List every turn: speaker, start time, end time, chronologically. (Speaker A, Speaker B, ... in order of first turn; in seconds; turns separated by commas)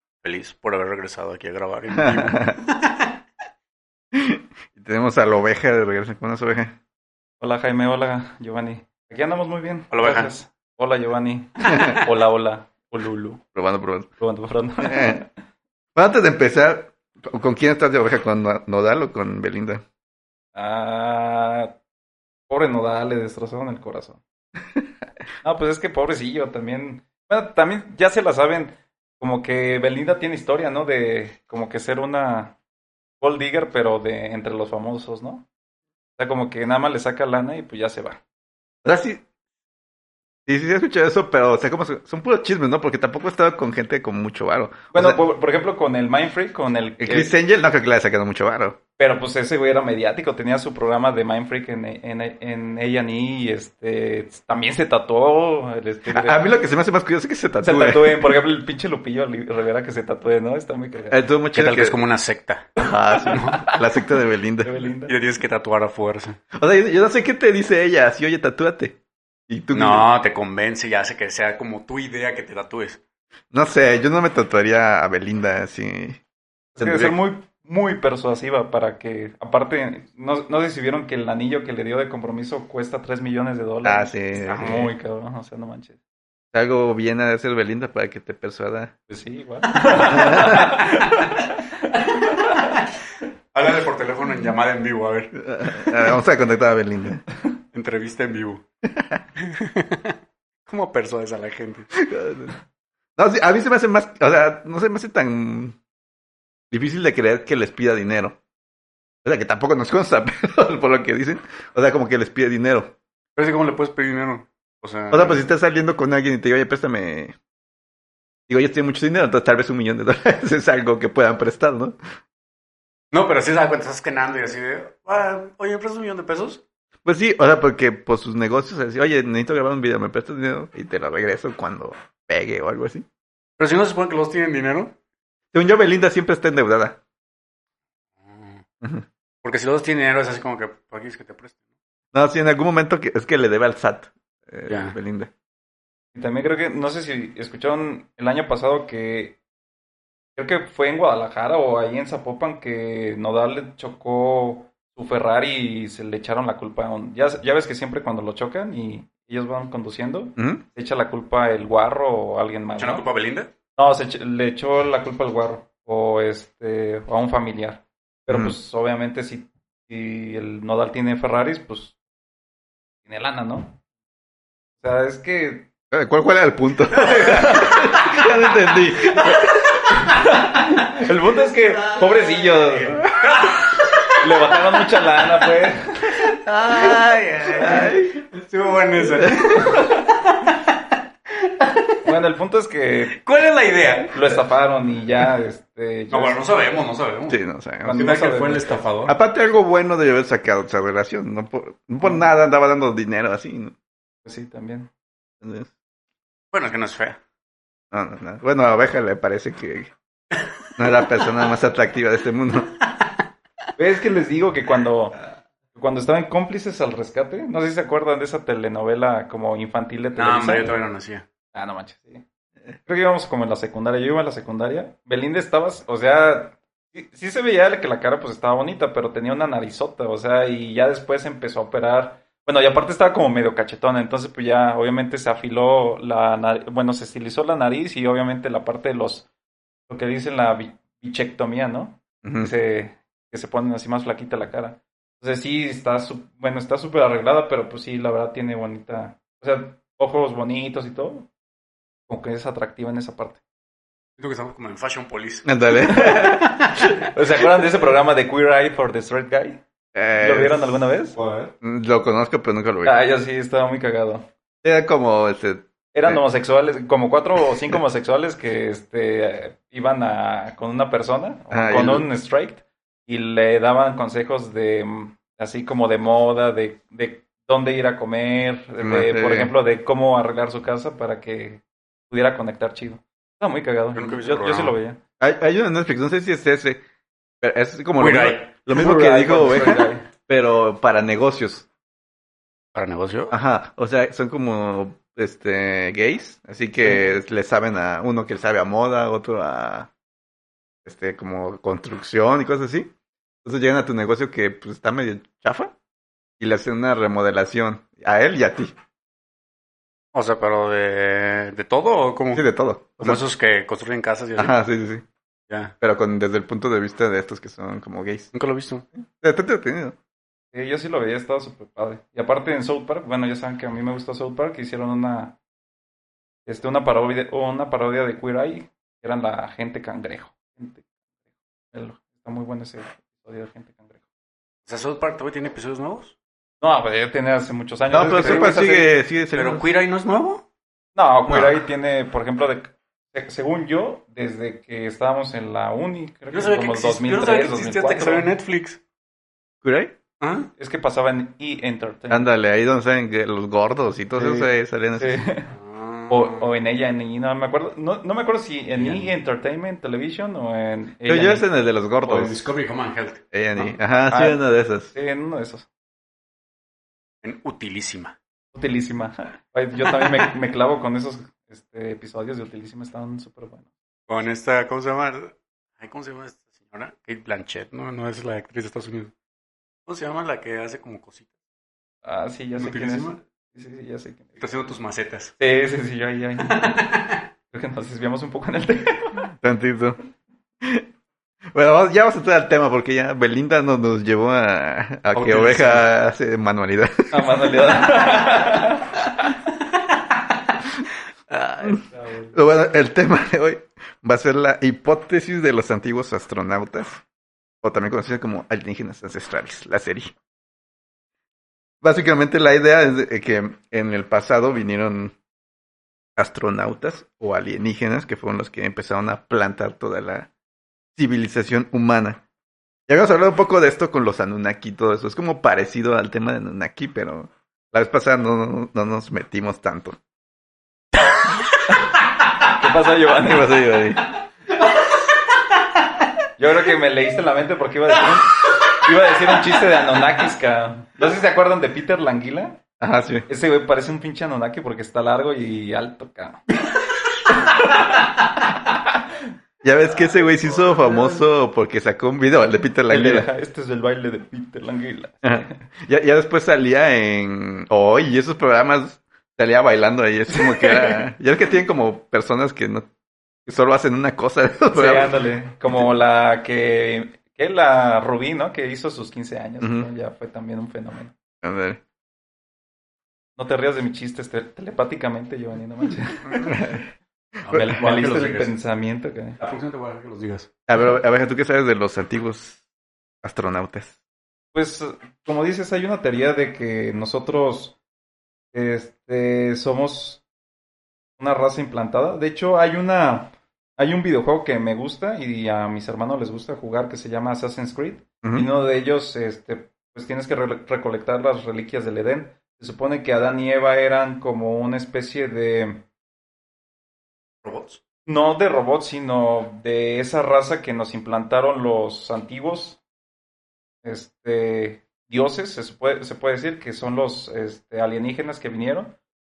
Speaker A: 0.2-3.1, Speaker B: 1.9-2.6, Speaker B: 4.1-6.7, Speaker C: 7.4-13.4, Speaker A: 9.9-10.3, Speaker B: 11.7-12.0, Speaker B: 13.5-14.1, Speaker C: 14.2-15.3, Speaker B: 14.8-15.2, Speaker B: 15.9-19.8, Speaker C: 20.5-21.8, Speaker C: 22.5-24.2, Speaker C: 25.4-32.6, Speaker C: 33.2-35.5, Speaker C: 36.2-38.2, Speaker B: 38.8-39.2, Speaker B: 40.5-45.2, Speaker C: 44.9-47.3, Speaker B: 47.0-48.8, Speaker C: 49.0-56.5, Speaker B: 56.1-58.4, Speaker C: 57.6-61.2, Speaker B: 61.1-62.0, Speaker A: 61.5-63.6, Speaker B: 62.8-64.7, Speaker C: 63.1-64.0, Speaker C: 64.6-65.1, Speaker A: 65.0-66.4, Speaker B: 66.5-70.1, Speaker A: 69.7-73.0, Speaker B: 73.5-76.2, Speaker C: 76.8-86.0, Speaker B: 76.8-77.1, Speaker B: 83.8-84.9, Speaker A: 84.4-84.7, Speaker B: 86.5-88.9, Speaker C: 89.1-91.8, Speaker B: 89.9-90.9, Speaker A: 92.2-92.8, Speaker A: 93.5-95.3, Speaker B: 95.3-97.2, Speaker A: 97.7-98.6, Speaker B: 98.9-99.2, Speaker A: 99.4-100.2, Speaker A: 100.7-101.9, Speaker B: 102.0-102.5, Speaker B: 103.2-105.8, Speaker B: 106.7-108.4, Speaker B: 109.2-113.0, Speaker A: 113.3-115.4, Speaker B: 115.1-117.3, Speaker B: 118.5-122.0, Speaker A: 123.1-126.6, Speaker B: 127.0-133.1, Speaker A: 133.6-134.9, Speaker B: 135.5-137.0, Speaker A: 138.2-138.6, Speaker B: 138.8-139.1, Speaker A: 139.4-141.6, Speaker B: 142.1-145.3, Speaker A: 144.7-145.0, Speaker C: 146.1-149.4, Speaker C: 150.3-163.1, Speaker B: 160.4-160.6, Speaker A: 162.8-163.5, Speaker C: 163.8-171.9, Speaker B: 168.3-168.5, Speaker C: 173.0-173.8, Speaker C: 174.8-175.7, Speaker B: 175.9-180.0, Speaker A: 177.0-178.1, Speaker C: 177.2-177.8, Speaker C: 179.9-183.1, Speaker A: 183.2-184.1, Speaker C: 184.2-186.3, Speaker B: 186.2-188.2, Speaker A: 186.4-190.6, Speaker B: 189.0-189.9, Speaker A: 191.4-191.9, Speaker C: 192.0-193.2, Speaker A: 193.1-194.2, Speaker C: 194.1-196.4, Speaker A: 196.1-197.4, Speaker B: 197.3-198.1, Speaker C: 197.8-198.9, Speaker A: 197.9-199.2, Speaker B: 199.1-203.7, Speaker C: 202.0-202.3, Speaker C: 204.2-204.9, Speaker B: 205.4-205.7, Speaker A: 206.5-207.2, Speaker B: 207.9-209.9, Speaker B: 210.8-212.7, Speaker C: 213.8-215.2, Speaker C: 215.7-220.7, Speaker A: 220.2-221.2, Speaker C: 221.5-222.2, Speaker C: 222.8-239.3, Speaker C: 239.9-251.3, Speaker B: 242.2-242.5, Speaker C: 252.1-253.4, Speaker A: 254.2-256.3, Speaker B: 255.4-257.0, Speaker C: 255.8-256.4, Speaker C: 256.9-259.6, Speaker B: 259.9-260.7, Speaker C: 260.1-261.1, Speaker A: 261.1-261.5, Speaker B: 261.6-263.0, Speaker C: 262.8-264.3, Speaker B: 264.6-266.2, Speaker C: 265.9-285.0, Speaker B: 271.5-272.1, Speaker B: 278.8-279.5, Speaker A: 283.9-284.7, Speaker B: 285.2-286.8, Speaker B: 287.4-291.7, Speaker A: 288.0-288.5, Speaker C: 288.7-290.1, Speaker A: 292.7-293.4, Speaker B: 293.3-299.9, Speaker B: 300.8-302.9, Speaker B: 303.4-305.7, Speaker B: 306.4-308.7, Speaker A: 310.1-312.4, Speaker B: 312.3-313.2, Speaker A: 313.0-314.6, Speaker B: 314.4-315.0, Speaker A: 315.5-315.7, Speaker B: 315.8-318.3, Speaker A: 318.3-318.9, Speaker B: 319.2-319.9, Speaker C: 320.5-325.4, Speaker C: 326.4-330.9, Speaker C: 331.7-334.0, Speaker A: 334.6-336.1, Speaker C: 336.6-338.9, Speaker B: 337.9-339.7, Speaker A: 338.1-338.6, Speaker A: 339.3-340.4, Speaker C: 340.9-348.3, Speaker A: 346.3-348.8, Speaker B: 349.6-349.9, Speaker A: 350.2-350.5, Speaker C: 350.6-352.3, Speaker B: 352.1-355.2, Speaker C: 354.1-355.5, Speaker A: 355.5-356.5, Speaker C: 356.1-361.5, Speaker A: 358.8-359.1, Speaker B: 361.1-362.5, Speaker A: 362.0-363.2, Speaker B: 363.3-364.9, Speaker C: 363.6-365.7, Speaker A: 367.2-368.1, Speaker C: 368.5-373.7, Speaker A: 369.9-370.2, Speaker A: 374.1-379.1, Speaker A: 379.9-381.3, Speaker C: 382.0-384.4, Speaker A: 382.6-383.2, Speaker A: 384.4-385.3, Speaker C: 385.4-386.8, Speaker A: 386.4-387.2, Speaker C: 387.5-389.3, Speaker B: 389.4-390.0, Speaker B: 391.5-397.8, Speaker A: 395.1-395.9, Speaker C: 397.1-399.3, Speaker B: 401.3-407.0, Speaker C: 401.6-402.4, Speaker B: 407.6-410.1, Speaker B: 411.8-415.1, Speaker B: 416.2-420.3, Speaker B: 420.9-422.2, Speaker B: 422.9-430.0, Speaker C: 432.5-433.6, Speaker B: 433.2-434.0, Speaker C: 436.4-442.6, Speaker B: 442.8-443.3, Speaker C: 443.3-446.4, Speaker C: 447.3-448.1, Speaker C: 448.7-449.0, Speaker B: 449.6-453.3, Speaker A: 450.0-451.2, Speaker C: 452.9-455.6, Speaker B: 455.2-462.9, Speaker C: 460.3-461.0, Speaker B: 463.4-465.2, Speaker C: 464.7-471.1, Speaker B: 469.6-469.9, Speaker B: 471.4-471.8, Speaker C: 473.4-476.7, Speaker B: 476.4-476.9, Speaker A: 477.4-478.5, Speaker B: 477.5-477.7, Speaker C: 477.5-479.4, Speaker A: 479.4-480.5, Speaker B: 480.7-482.6, Speaker B: 483.2-483.9, Speaker C: 484.5-487.8, Speaker C: 488.5-490.2, Speaker C: 491.2-505.9, Speaker B: 498.2-498.5, Speaker A: 507.4-507.8, Speaker C: 508.1-512.8, Speaker C: 513.8-519.0